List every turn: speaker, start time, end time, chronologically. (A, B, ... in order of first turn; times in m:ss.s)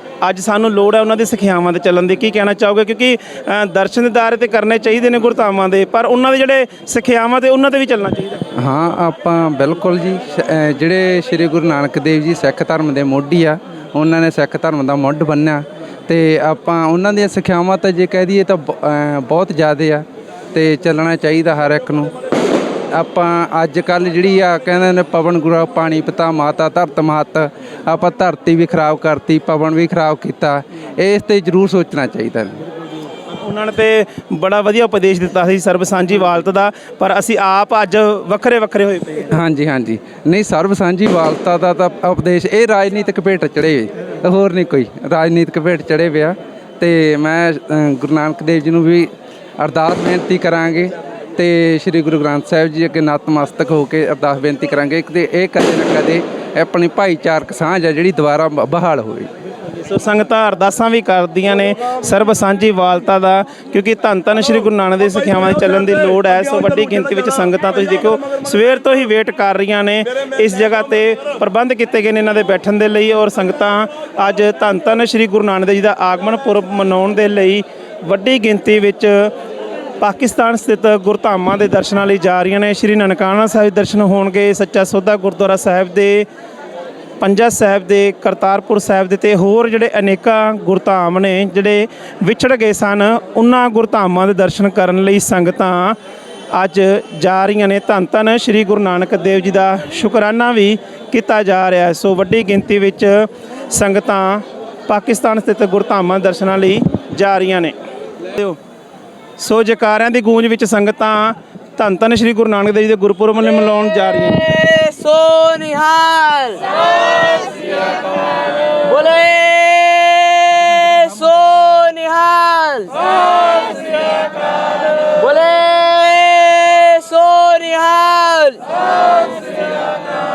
0:00.2-0:08.4 A
0:08.5-0:22.1 B
0:22.9-0:32.6 B
0:33.3-0:39.3 A
0:39.3-0:59.3 B
0:59.8-1:19.3 A
1:20.0-1:26.3 A
1:27.2-1:36.0 A
1:36.5-1:47.8 A
1:49.4-1:54.5 A
1:54.4-1:57.8 C
1:58.8-2:03.0 C
2:03.5-2:04.1 C
2:05.2-2:08.6 C